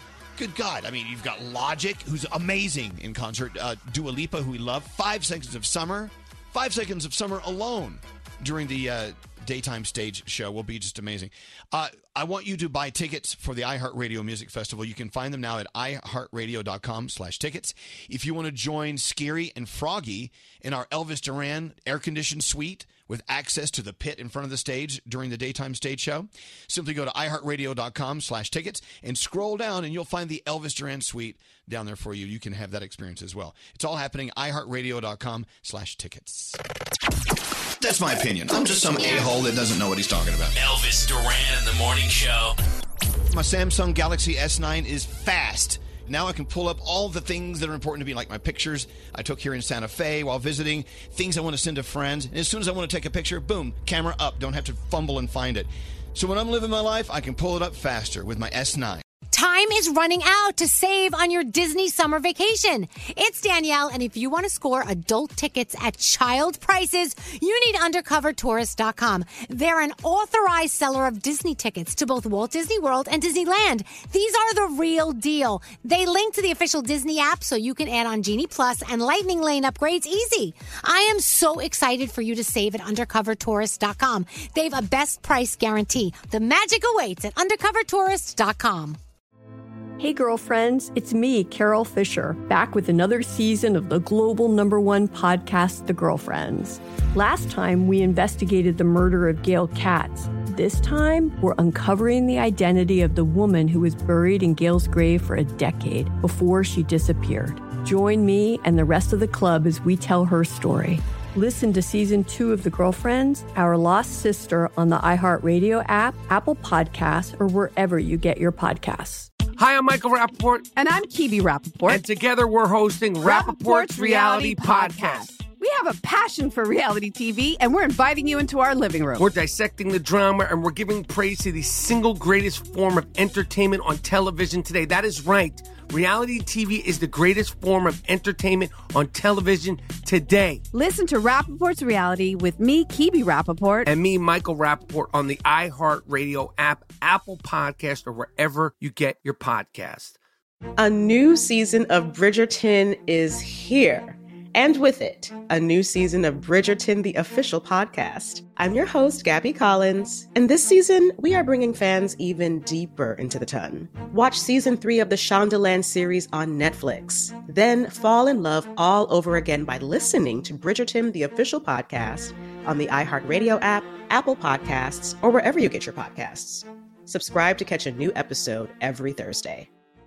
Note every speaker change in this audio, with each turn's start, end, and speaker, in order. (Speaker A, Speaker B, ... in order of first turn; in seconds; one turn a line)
Speaker A: 0.4-36.6
Speaker A: 37.8-40.5
Speaker B: 40.5-42.6
Speaker A: 43.3-59.0
Speaker C: 59.3-89.0
Speaker D: 90.0-119.3
Speaker E: 119.6-120.7
Speaker F: 120.8-122.0
Speaker E: 121.8-125.4
Speaker F: 123.2-129.3
Speaker E: 129.2-140.7
Speaker F: 140.7-143.9
Speaker E: 143.8-150.2
Speaker G: 150.8-179.7